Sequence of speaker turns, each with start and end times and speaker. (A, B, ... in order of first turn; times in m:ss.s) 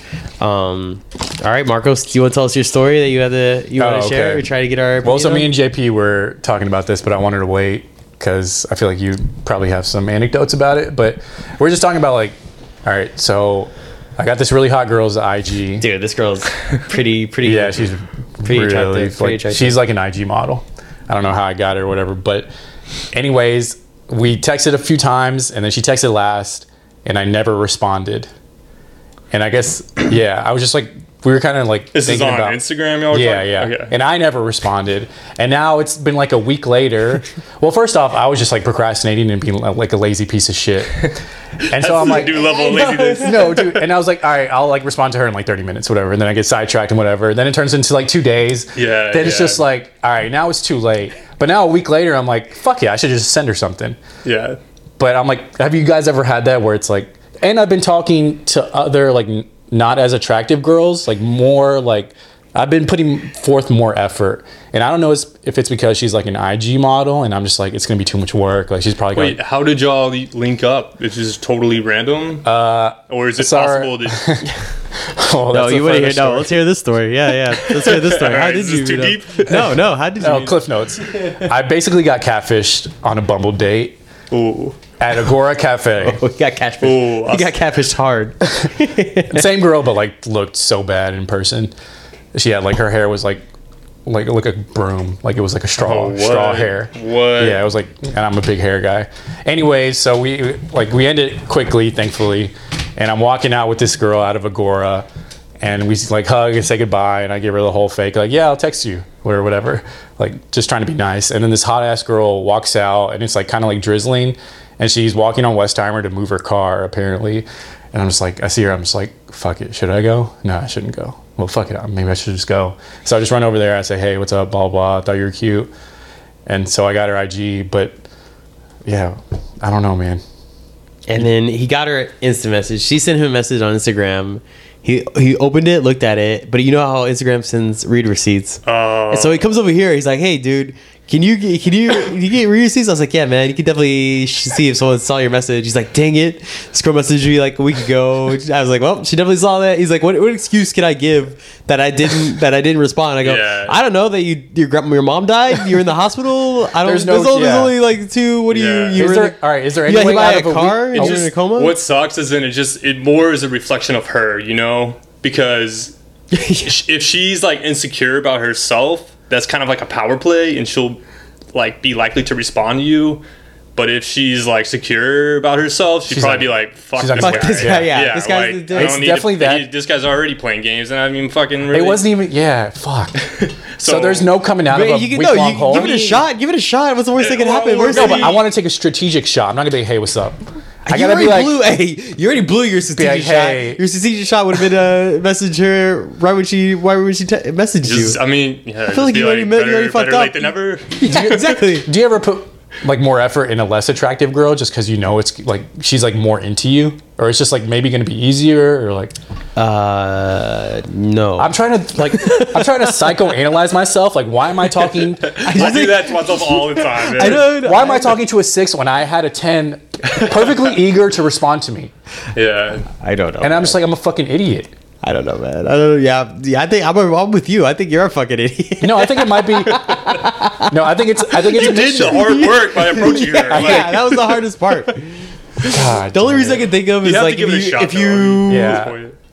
0:00.4-0:05.5 A
0:03.8-0:04.5 B
0:05.0-0:15.8 B
0:15.8-0:17.9 A
0:17.4-0:22.5 B
0:18.4-0:19.8 A
0:23.1-0:28.3 B
0:29.3-0:41.2 B
0:31.9-0:33.9 C
0:41.7-0:54.0 B
0:41.7-0:43.8 C
0:42.4-0:43.4 A
0:48.8-0:49.6 C
0:54.2-0:54.6 C
0:55.0-1:09.4 B
1:09.2-1:12.5 C
1:12.4-1:16.6 B
1:13.1-1:14.3 C
1:15.5-1:20.6 A
1:17.8-1:19.6 C
1:19.5-1:24.0 B
1:24.3-1:24.8 C
1:25.0-1:26.2 B
1:26.0-1:29.5 A
1:26.8-1:27.6 C
1:29.3-1:31.7 B
1:32.3-1:33.4 B
1:34.0-1:45.1 B
1:35.8-1:37.6 C
1:45.6-2:05.7 B
2:06.5-2:08.0 B
2:08.9-2:10.2 B
2:11.1-2:41.8 A
2:18.7-2:19.5 C
2:33.2-2:33.8 C
2:36.8-2:37.8 B
2:38.5-2:39.0 C
2:39.0-2:41.3 B
2:40.9-2:46.0 C
2:46.3-2:46.8 A
2:46.6-2:51.0 C
2:51.5-2:53.2 C
2:53.8-3:02.1 C
2:56.1-2:57.9 B
2:57.2-2:59.1 A
2:58.7-2:59.7 B
3:01.7-3:03.2 B
3:03.3-3:04.3 C
3:03.8-3:06.2 B
3:04.7-3:08.4 A
3:05.7-3:06.2 C
3:07.2-3:08.4 C
3:07.9-3:11.6 B
3:10.9-3:18.2 A
3:13.0-3:13.8 B
3:17.8-3:21.4 C
3:18.9-3:21.9 A
3:21.1-3:29.2 B
3:29.6-3:33.3 A
3:31.4-3:35.8 B
3:34.9-3:38.2 A
3:35.3-3:37.5 C
3:37.2-3:41.9 B
3:42.4-3:42.9 C
3:43.0-3:43.8 A
3:43.4-3:44.7 B
3:45.0-3:50.8 A
3:48.8-3:50.0 B
3:50.6-3:52.6 B
3:51.3-3:58.9 A
3:51.4-3:54.4 C
3:53.3-3:54.0 B
3:55.6-3:56.7 B
3:57.0-3:59.2 C
3:58.5-3:59.0 B